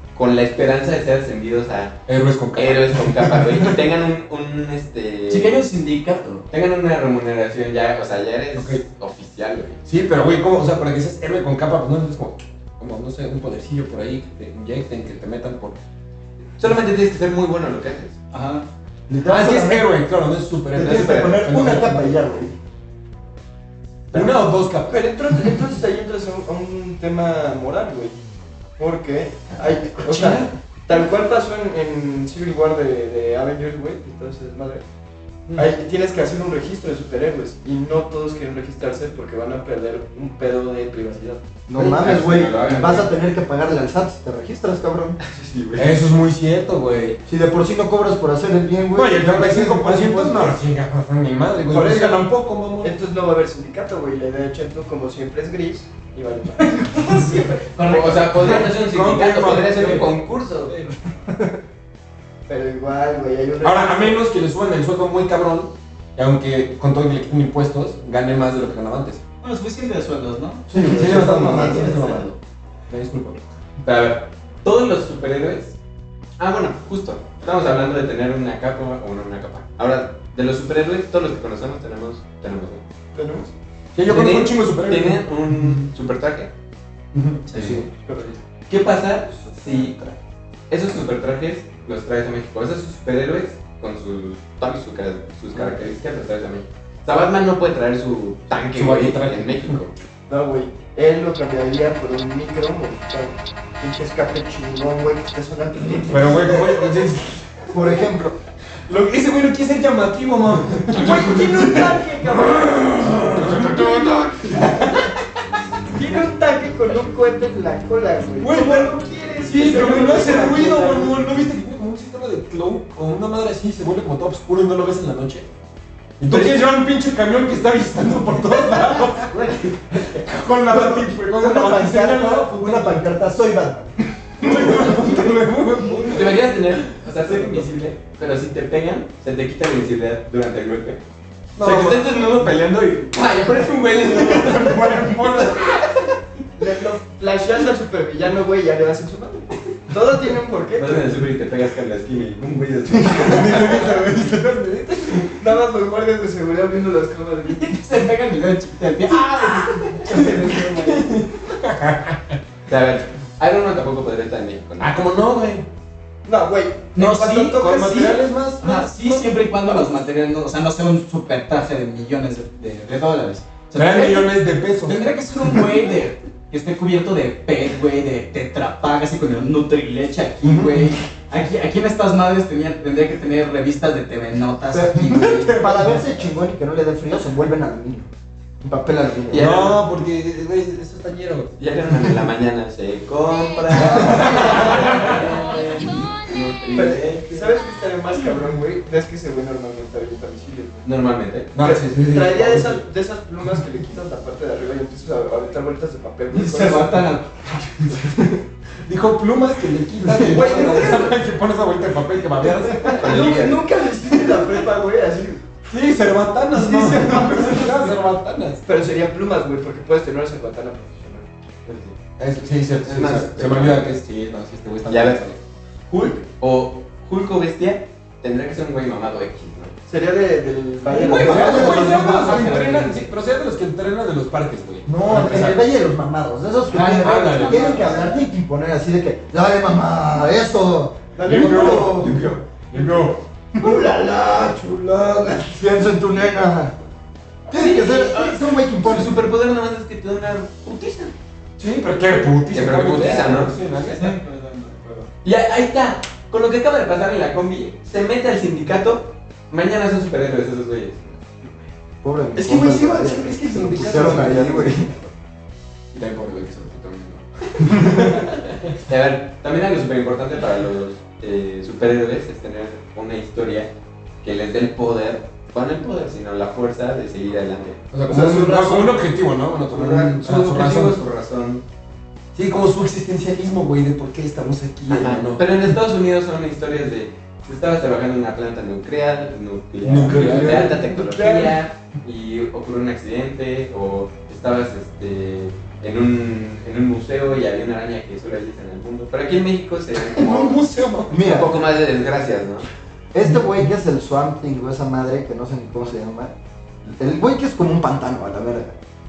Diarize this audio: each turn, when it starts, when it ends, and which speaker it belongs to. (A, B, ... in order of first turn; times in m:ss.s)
0:00.2-0:02.0 A
0:02.1-0:03.7 B
0:02.6-0:05.6 A
0:05.3-0:06.4 C
0:06.5-0:09.8 A
0:08.6-0:08.8 B
0:09.9-0:15.8 B
0:16.6-0:18.2 A
0:18.3-0:18.6 C
0:19.1-0:19.9 D
0:19.2-0:22.2 B
0:20.7-0:22.6 D
0:24.1-0:25.2 B
0:24.9-0:28.2 E
0:28.8-0:34.8 E
0:30.0-0:30.5 A
0:35.6-0:41.4 E
0:41.7-0:45.2 D
0:41.8-0:43.1 A
0:45.2-0:46.0 A
0:45.8-0:47.2 B
0:47.3-0:50.6 D
0:48.9-0:52.9 B
0:51.7-0:52.2 D
0:51.8-0:52.2 E
0:52.8-0:57.4 E
0:56.6-0:58.7 C
0:57.8-1:00.8 A
0:58.5-1:00.9 B
1:02.5-1:04.2 E
1:03.6-1:09.2 B
1:09.4-1:10.7 C
1:10.7-1:12.3 D
1:10.8-1:12.4 B
1:10.8-1:12.2 E
1:12.9-1:13.4 B
1:13.8-1:15.8 A
1:16.4-1:22.8 A
1:23.1-1:23.5 E
1:24.0-1:25.8 B
1:24.1-1:26.5 A
1:27.1-1:27.9 B
1:27.5-1:27.8 C
1:28.1-1:28.4 E
1:28.7-1:30.0 A
1:29.3-1:30.2 D
1:30.7-1:39.9 A
1:38.7-1:39.8 B
1:40.3-1:47.0 E
1:46.1-1:47.7 B
1:47.7-1:48.4 D
1:48.9-1:52.0 B
1:50.9-1:54.1 E
1:52.6-1:55.0 B
1:55.9-2:01.2 E
1:58.4-1:58.9 B
1:59.4-2:05.5 B
2:06.2-2:13.1 B
2:06.3-2:06.6 A
2:09.4-2:10.1 A
2:10.7-2:14.5 D
2:14.4-2:16.5 B
2:16.1-2:21.0 A
2:21.6-2:22.4 B
2:21.6-2:26.1 A
2:24.0-2:25.9 B
2:26.6-2:31.2 E
2:30.7-2:33.9 A
2:33.0-2:35.4 B
2:33.3-2:33.9 E
2:35.4-2:37.7 E
2:37.5-2:41.1 C
2:40.1-2:42.4 B
2:42.7-2:45.0 A
2:44.8-2:45.7 B
2:46.2-2:48.1 E
2:47.0-3:05.7 C
2:47.5-2:49.3 B
2:53.8-2:55.6 B
3:00.4-3:01.0 B
3:04.7-3:08.1 D
3:05.0-3:06.1 B
3:08.6-3:09.5 D
3:09.3-3:09.8 A
3:09.3-3:11.5 B
3:11.6-3:17.5 A
3:13.7-3:15.2 B
3:14.4-3:14.9 E
3:16.7-3:20.9 E
3:20.8-3:21.5 A
3:21.5-3:22.8 B
3:21.6-3:27.1 E
3:26.3-3:27.9 C
3:28.8-3:33.3 B
3:30.2-3:31.2 E
3:32.8-3:35.6 E
3:32.9-3:33.7 A
3:35.7-3:38.6 B
3:36.5-3:38.0 E
3:38.6-3:41.3 E
3:41.7-3:42.0 A
3:42.2-3:45.4 B
3:42.8-3:43.9 A
3:44.9-3:45.2 A
3:45.9-3:49.8 A
3:49.9-3:52.3 E
3:50.9-3:55.7 B
3:51.0-3:53.0 C
3:51.1-3:52.7 D
3:54.9-4:02.2 D
3:56.7-3:58.1 C
3:57.0-3:58.1 B
4:01.2-4:02.3 E
4:01.2-4:03.2 B
4:03.6-4:06.8 D
4:07.5-4:09.2 D
4:07.5-4:11.1 A
4:11.6-4:14.2 B
4:12.5-4:13.6 A
4:13.8-4:14.8 C
4:14.8-4:15.1 B
4:15.2-4:21.3 A
4:22.0-4:24.9 D
4:22.4-4:25.0 B
4:23.6-4:24.9 E
4:25.9-4:37.9 A
4:26.0-4:27.8 B
4:37.9-4:41.0 B
4:38.1-4:38.7 D
4:39.7-4:41.6 A
4:42.3-4:45.4 B
4:44.9-5:02.7 A
4:49.8-4:50.9 B
4:51.0-4:51.6 E
5:00.1-5:01.3 B
5:01.1-5:01.6 D
5:03.1-5:06.3 D
5:06.9-5:08.8 D